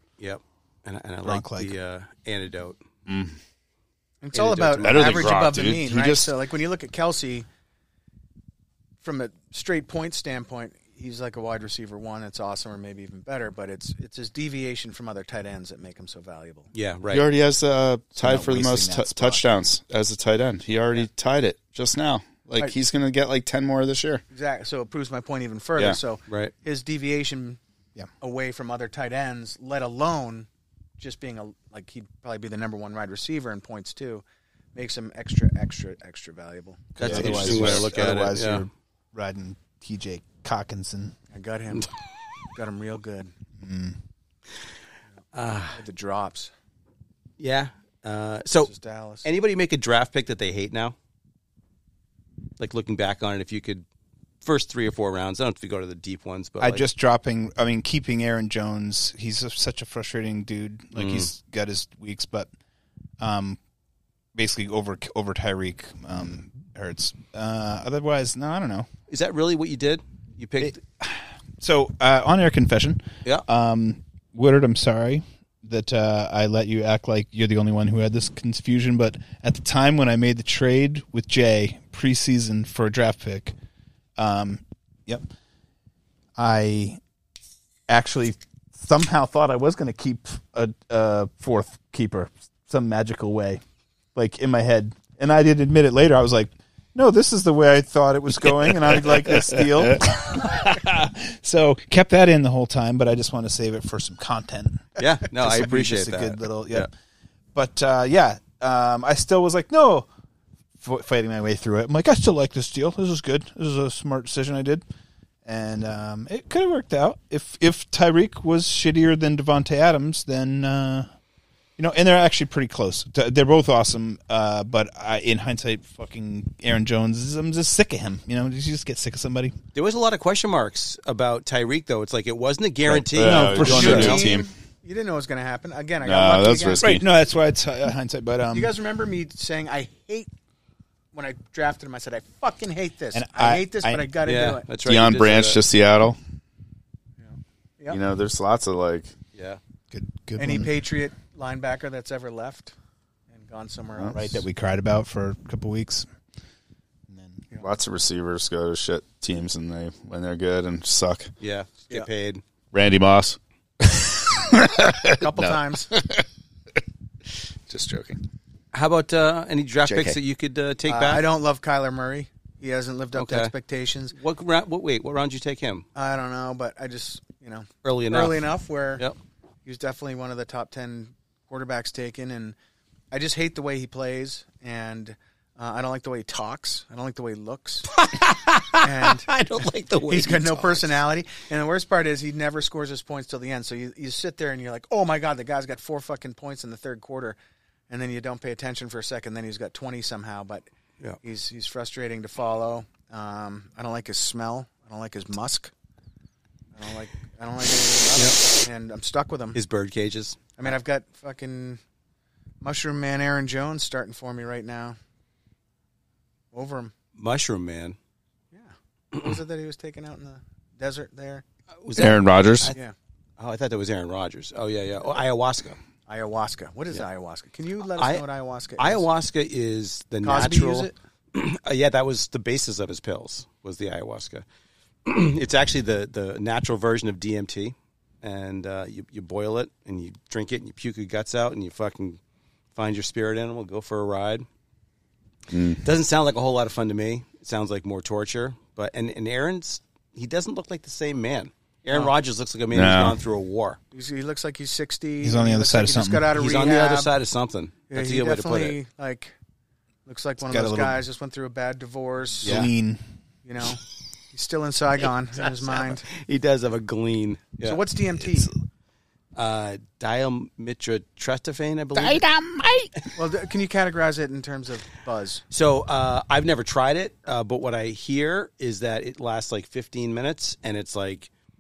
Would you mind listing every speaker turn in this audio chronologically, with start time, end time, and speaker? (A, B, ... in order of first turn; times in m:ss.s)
0:00.2-0:02.8 A
0:01.2-0:01.7 B
0:03.1-0:03.4 C
0:04.2-0:07.5 D
0:04.3-0:05.4 A
0:04.8-0:06.3 C
0:09.0-0:16.7 D
0:16.7-0:17.3 A
0:17.1-0:24.2 C
0:18.2-0:19.4 B
0:24.3-0:27.6 D
0:26.3-0:26.5 A
0:28.2-0:30.5 D
0:31.0-0:34.2 D
0:34.8-0:37.0 D
0:37.0-0:41.2 B
0:37.0-0:38.6 A
0:37.0-0:37.9 C
0:41.3-0:41.9 D
0:42.6-0:43.3 D
0:43.6-0:44.0 B
0:45.3-0:45.8 A
0:45.7-0:46.5 D
0:47.4-0:48.7 A
0:48.7-0:49.3 D
0:49.2-0:51.0 A
0:52.6-0:53.8 A
0:54.4-0:56.8 A
0:56.6-1:02.5 B
1:01.0-1:01.3 A
1:03.2-1:03.6 B
1:04.4-1:08.9 B
1:09.1-1:10.8 A
1:10.6-1:23.6 B
1:24.2-1:25.3 B
1:26.4-1:27.0 B
1:27.9-1:33.6 B
1:34.2-1:46.9 B
1:39.4-1:40.0 C
1:45.0-1:46.9 A
1:47.5-1:50.1 B
1:50.8-1:54.8 B
1:55.4-2:01.1 B
2:01.8-2:09.6 B
2:09.8-2:14.2 A
2:12.8-2:14.5 C
2:13.2-2:14.3 B
2:13.4-2:17.0 D
2:16.0-2:17.0 C
2:16.8-2:18.7 B
2:18.5-2:20.3 D
2:21.1-2:24.7 D
2:23.1-2:24.1 B
2:24.2-2:25.6 A
2:24.8-2:26.2 C
2:27.2-2:28.0 D
2:27.9-2:29.1 C
2:29.3-2:29.6 A
2:29.9-2:30.7 B
2:30.4-2:32.7 D
2:33.3-2:34.3 D
2:34.1-2:36.1 B
2:37.1-2:37.4 B
2:37.6-2:41.3 C
2:41.4-2:42.4 A
2:42.7-2:46.2 C
2:45.2-2:45.9 D
2:47.7-2:48.2 C
2:48.7-2:51.2 A
2:49.9-2:50.2 C
2:50.9-2:54.2 D
2:53.2-2:53.5 A
2:54.1-2:55.8 A
2:56.0-2:59.0 D
2:57.8-2:58.4 A
2:59.6-3:02.6 D
3:03.1-3:08.0 D
3:07.9-3:10.9 A
3:08.8-3:09.3 D
3:10.1-3:17.4 D
3:17.9-3:20.7 D
3:21.2-3:25.7 D
3:26.8-3:29.6 D
3:29.5-3:30.4 A
3:30.6-3:31.8 D
3:32.6-3:35.0 D
3:36.5-3:36.9 D
3:37.2-3:38.0 A
3:38.5-3:41.4 D
3:41.7-3:42.8 A
3:42.0-3:42.7 C
3:43.4-3:45.8 A
3:46.1-3:49.1 D
3:48.0-3:48.2 A
3:48.8-3:54.4 A
3:50.2-3:51.0 D
3:55.1-4:02.2 A
4:02.8-4:04.5 A
4:05.5-4:05.8 C
4:05.8-4:13.8 A
4:12.7-4:13.2 C
4:13.9-4:17.1 D
4:15.2-4:16.3 B
4:16.4-4:18.8 A
4:17.9-4:19.4 D
4:20.1-4:22.7 D
4:20.4-4:21.0 B
4:22.4-4:23.0 B
4:22.4-4:22.7 A
4:23.4-4:26.1 D
4:25.4-4:27.8 A
4:27.6-4:28.5 D
4:29.4-4:32.2 A
4:32.0-4:32.9 B
4:33.2-4:35.4 D
4:35.5-4:41.3 A